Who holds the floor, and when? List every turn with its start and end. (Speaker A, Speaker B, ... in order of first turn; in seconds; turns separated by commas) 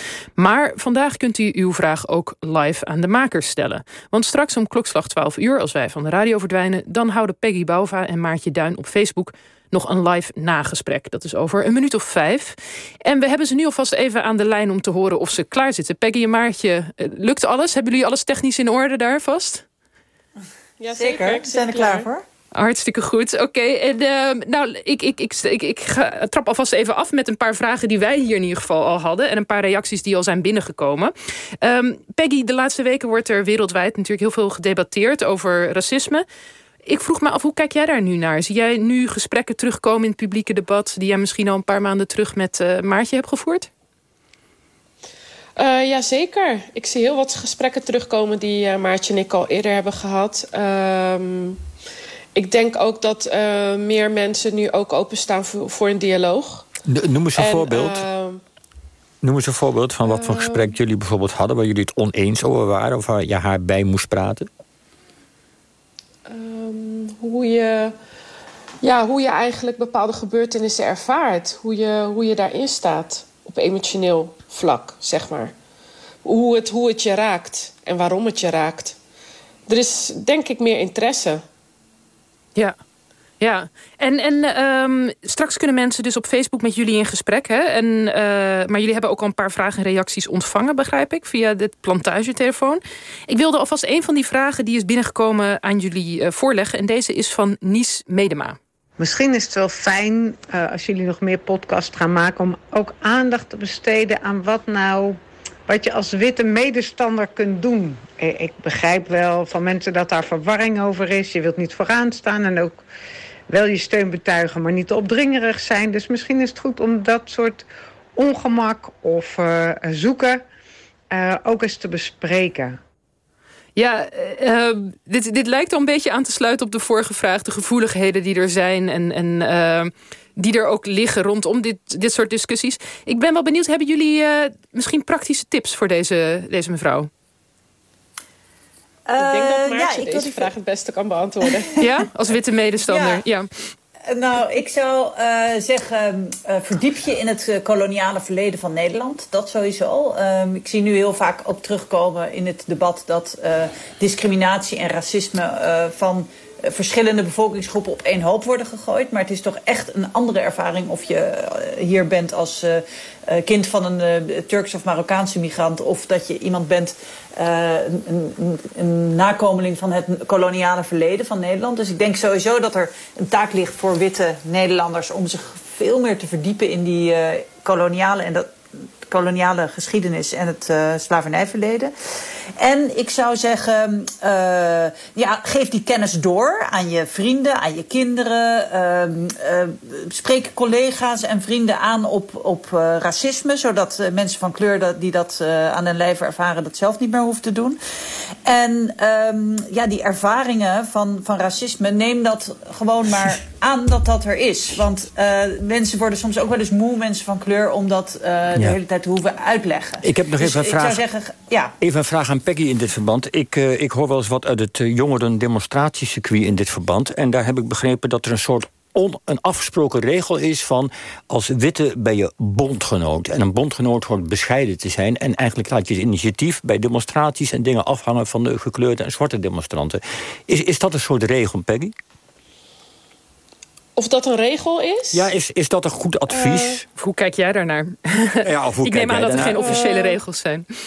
Speaker A: 0.4-19.6, Speaker B: 20.8-22.1, Speaker C: 20.9-22.2, Speaker A: 22.6-36.2, Speaker A: 36.9-43.7, Speaker B: 45.6-51.6, Speaker B: 52.3-56.7, Speaker D: 56.9-58.1, Speaker B: 57.4-58.4, Speaker D: 59.2-64.5, Speaker B: 60.0-60.8, Speaker B: 66.3-68.0, Speaker B: 68.8-75.5, Speaker B: 76.2-79.0, Speaker B: 79.7-81.4, Speaker A: 83.4-98.6, Speaker E: 99.0-105.2, Speaker E: 105.7-112.8, Speaker E: 113.5-117.7, Speaker E: 118.2-120.4, Speaker E: 121.1-122.8, Speaker A: 123.8-137.1, Speaker C: 139.1-140.5, Speaker B: 139.2-141.8, Speaker A: 141.8-143.5, Speaker C: 142.9-143.2, Speaker C: 144.1-178.5, Speaker C: 179.1-181.9, Speaker C: 182.6-197.8, Speaker C: 198.4-211.7, Speaker D: 210.0-211.0, Speaker D: 211.8-231.9, Speaker B: 234.0-235.3, Speaker D: 235.1-236.8, Speaker B: 236.3-236.8, Speaker A: 237.0-240.7, Speaker D: 238.4-239.8, Speaker B: 239.5-240.2